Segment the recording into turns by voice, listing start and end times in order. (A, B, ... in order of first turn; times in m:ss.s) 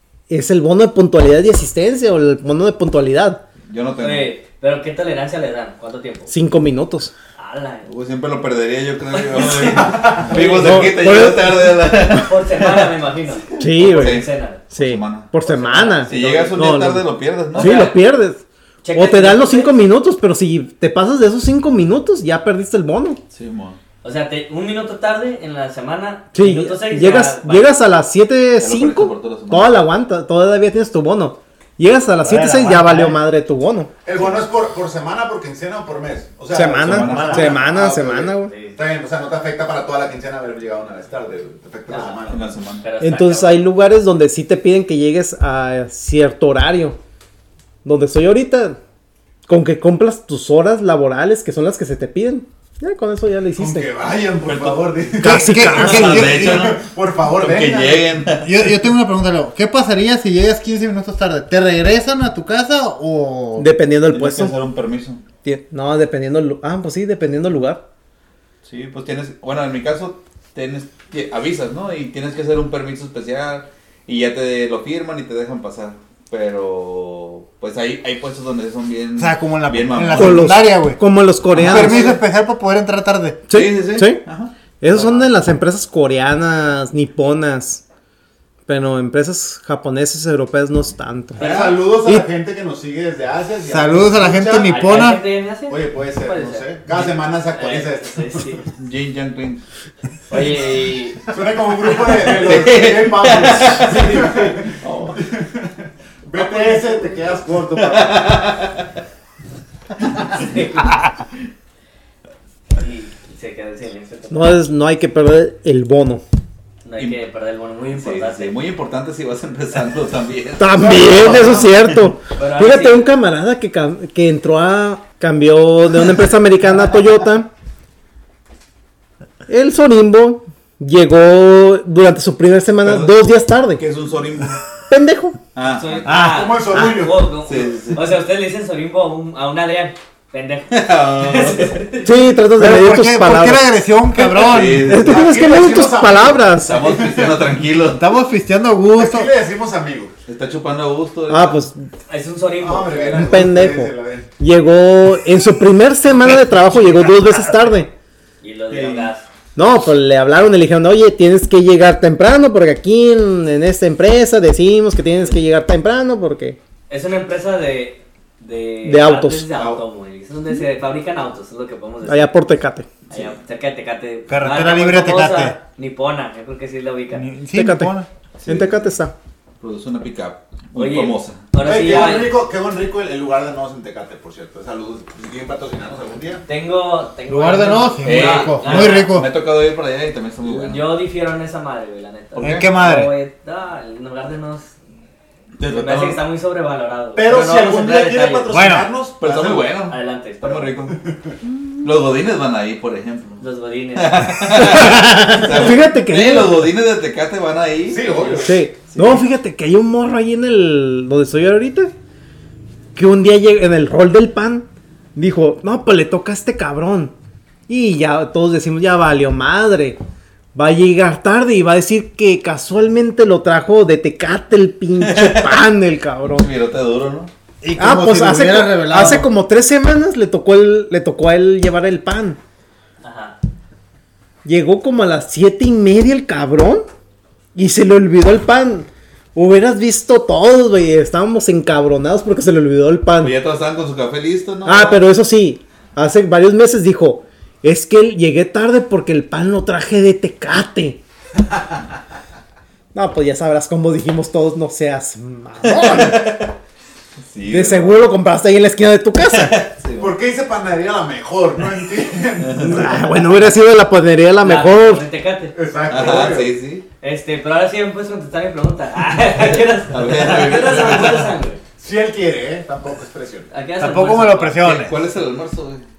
0:00.3-0:03.4 A
0:03.7-0:04.3 B
0:04.0-0:06.3 C
0:06.3-0:07.1 A
0:07.4-0:07.9 C
0:07.9-0:12.9 B
0:09.1-0:10.7 C
0:09.6-0:10.5 D
0:10.3-0:12.1 A
0:12.1-0:14.6 C
0:13.5-0:15.3 B
0:13.6-0:23.2 A
0:15.4-0:16.7 C
0:16.1-0:17.9 B
0:17.6-0:18.0 C
0:18.8-0:19.8 C
0:23.3-0:23.8 B
0:24.0-0:27.7 C
0:26.3-0:33.9 A
0:28.6-0:29.9 B
0:32.2-0:33.2 E
0:34.0-0:42.5 D
0:36.5-0:38.5 A
0:36.8-0:37.7 B
0:38.5-0:38.8 C
0:41.9-0:43.7 C
0:42.3-0:42.8 B
0:43.0-0:47.0 A
0:47.8-0:48.8 A
0:49.5-0:53.9 A
0:53.6-0:58.3 D
0:54.4-0:54.9 B
0:55.2-0:56.3 A
0:55.2-0:56.7 E
0:55.7-0:58.7 B
0:58.4-1:03.7 E
1:03.6-1:04.6 A
1:04.1-1:05.2 B
1:05.4-1:07.8 A
1:08.6-1:20.6 B
1:19.2-1:21.0 E
1:20.1-1:22.1 A
1:21.6-1:21.9 B
1:21.6-1:23.5 E
1:21.7-1:22.2 D
1:23.5-1:24.2 A
1:23.5-1:25.3 B
1:24.8-1:27.8 A
1:28.7-1:32.3 A
1:31.4-1:35.0 D
1:31.4-1:31.7 C
1:31.4-1:31.7 B
1:33.6-1:35.2 E
1:34.6-1:38.7 C
1:35.7-1:38.6 D
1:38.8-1:39.6 B
1:40.3-1:41.2 C
1:41.3-1:48.5 D
1:42.1-1:42.6 C
1:42.2-1:45.2 B
1:46.4-1:47.4 C
1:47.8-1:48.9 B
1:50.2-1:51.1 C
1:52.8-1:54.6 C
1:54.3-1:56.2 A
1:56.8-1:58.5 C
1:57.9-2:02.0 B
2:00.6-2:07.5 A
2:02.4-2:03.1 C
2:09.5-2:13.8 A
2:12.8-2:13.1 B
2:13.8-2:14.6 B
2:14.9-2:15.4 A
2:15.6-2:16.0 B
2:15.8-2:22.1 C
2:16.1-2:16.4 E
2:16.2-2:17.2 D
2:17.4-2:18.1 B
2:20.7-2:21.8 B
2:22.0-2:26.8 A
2:22.6-2:25.0 E
2:24.4-2:25.3 B
2:25.0-2:27.5 D
2:26.6-2:28.0 B
2:28.0-2:29.3 E
2:28.9-2:30.1 D
2:30.3-2:31.6 B
2:31.3-2:31.9 A
2:32.1-2:33.4 C
2:32.6-2:34.3 D
2:33.1-2:37.9 A
2:38.4-2:39.3 C
2:38.7-2:39.1 B
2:39.6-2:46.6 A
2:46.9-2:52.3 C
2:48.8-2:49.5 A
2:49.6-2:49.8 B
2:52.0-2:52.9 A
2:53.1-2:57.3 C
2:53.1-2:53.4 B
2:54.3-2:55.6 E
2:57.1-2:58.1 E
2:57.5-2:59.1 A
2:58.4-2:58.9 B
2:59.6-3:01.5 B
3:00.7-3:02.4 C
3:01.6-3:06.4 D
3:06.5-3:09.2 C
3:07.3-3:09.3 E
3:08.0-3:11.0 B
3:10.4-3:14.7 C
3:12.4-3:12.7 B
3:12.4-3:13.1 E
3:15.6-3:16.2 B
3:15.6-3:18.5 C
3:17.2-3:19.7 D
3:18.5-3:18.9 E
3:19.2-3:21.0 B
3:19.9-3:20.8 C
3:21.0-3:21.3 D
3:21.8-3:23.4 B
3:23.4-3:24.4 C
3:24.0-3:28.3 B
3:24.5-3:26.7 A
3:27.9-3:28.6 D
3:28.1-3:28.5 C
3:28.4-3:31.9 A
3:29.0-3:29.2 B
3:33.0-3:37.1 A
3:37.7-3:40.0 A
3:40.6-3:46.5 A
3:45.0-3:45.6 B
3:46.4-3:47.3 B
3:47.6-3:49.3 E
3:47.8-3:52.4 A
3:53.0-3:53.4 C
3:54.4-3:56.8 A
3:57.6-4:03.4 A
4:03.2-4:05.0 B
4:04.6-4:11.0 A
4:12.9-4:16.2 A
4:15.6-4:16.5 B
4:17.3-4:18.0 B
4:17.5-4:19.6 A
4:19.2-4:20.2 B
4:20.0-4:22.9 D
4:22.4-4:22.9 B
4:22.6-4:25.0 A
4:24.4-4:26.2 C
4:25.5-4:26.5 D
4:25.9-4:26.9 B
4:27.0-4:31.6 C
4:29.2-4:31.3 B
4:31.8-4:33.5 D
4:33.5-4:34.7 C
4:33.8-4:35.0 E
4:34.6-4:35.9 B